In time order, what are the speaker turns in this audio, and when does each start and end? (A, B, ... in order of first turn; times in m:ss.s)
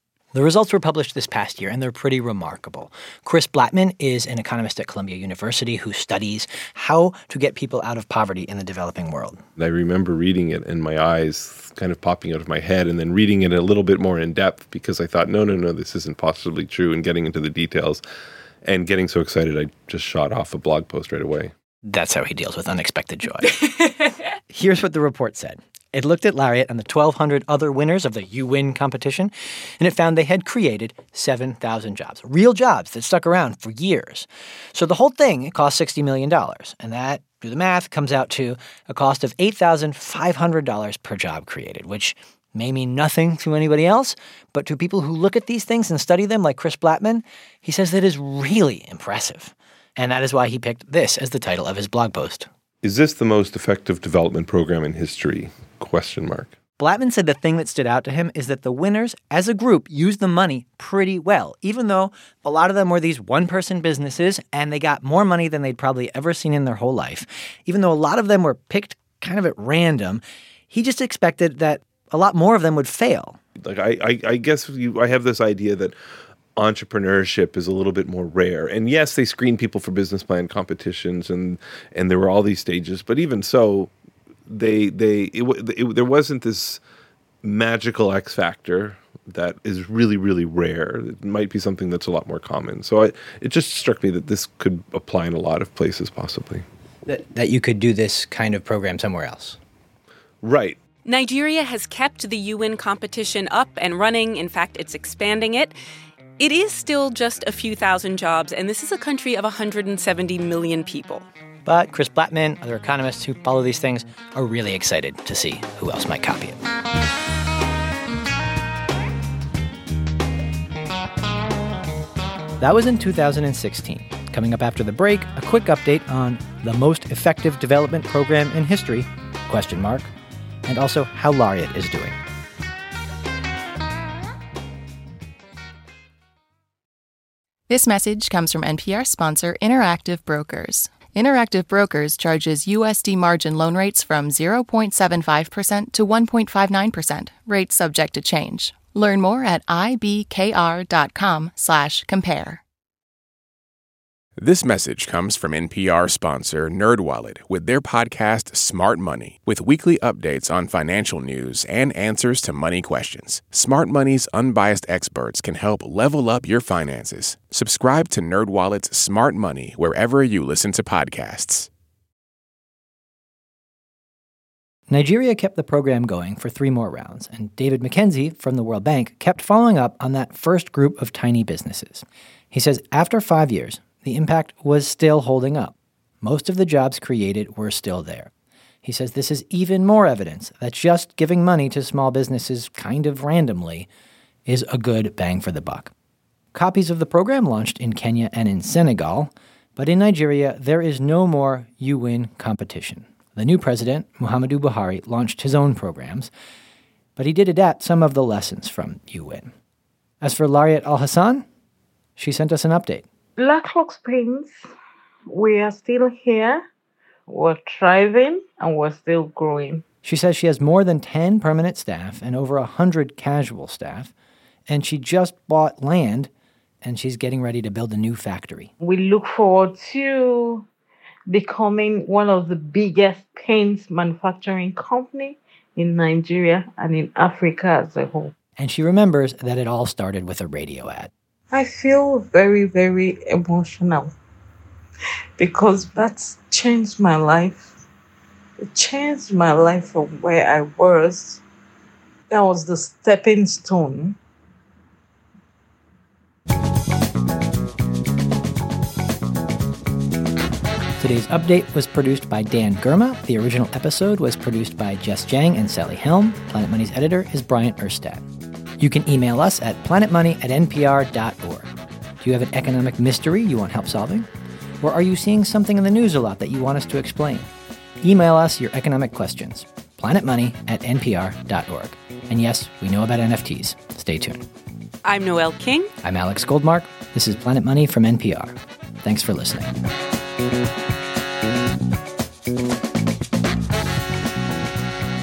0:00.3-0:09.4 A
0:09.6-0:18.0 B
0:18.6-0:21.5 B
0:21.8-0:23.7 A
0:24.5-0:52.5 A
0:52.8-0:56.5 B
0:56.8-1:13.4 A
1:13.6-1:15.9 B
1:16.6-1:23.9 B
1:24.5-1:26.8 B
1:27.4-1:36.6 B
1:37.0-1:39.6 A
1:40.4-1:40.8 B
1:41.0-1:45.7 C
1:46.4-1:51.2 C
1:51.6-1:56.6 A
2:02.6-2:10.1 A
2:10.6-2:12.2 A
2:17.7-2:32.6 D
2:34.5-2:34.8 E
2:35.4-2:37.3 E
2:37.8-2:39.2 E
2:39.9-2:40.3 E
2:41.1-2:42.2 E
2:48.3-2:51.4 E
2:54.9-3:08.3 A
3:08.8-3:13.9 A
3:14.5-3:15.9 A
3:16.5-3:26.3 A
3:27.2-3:29.5 A
3:30.2-3:31.4 A
3:32.2-3:33.0 A
3:33.4-3:34.5 F
3:35.3-3:36.6 F
3:37.3-3:39.8 F
3:40.0-3:44.1 A
3:44.7-3:46.3 A
3:46.8-3:48.7 A
3:48.8-3:50.6 F
3:51.3-3:58.3 F
3:58.6-4:01.1 A
4:01.5-4:04.1 F
4:05.4-4:07.7 F
4:08.6-4:11.4 F
4:12.3-4:14.2 F
4:21.0-4:28.2 A
4:28.8-4:31.7 A
4:32.2-4:34.3 A
4:34.8-4:37.5 A
4:38.0-4:44.4 A
4:45.0-4:45.9 C
4:46.0-4:49.7 A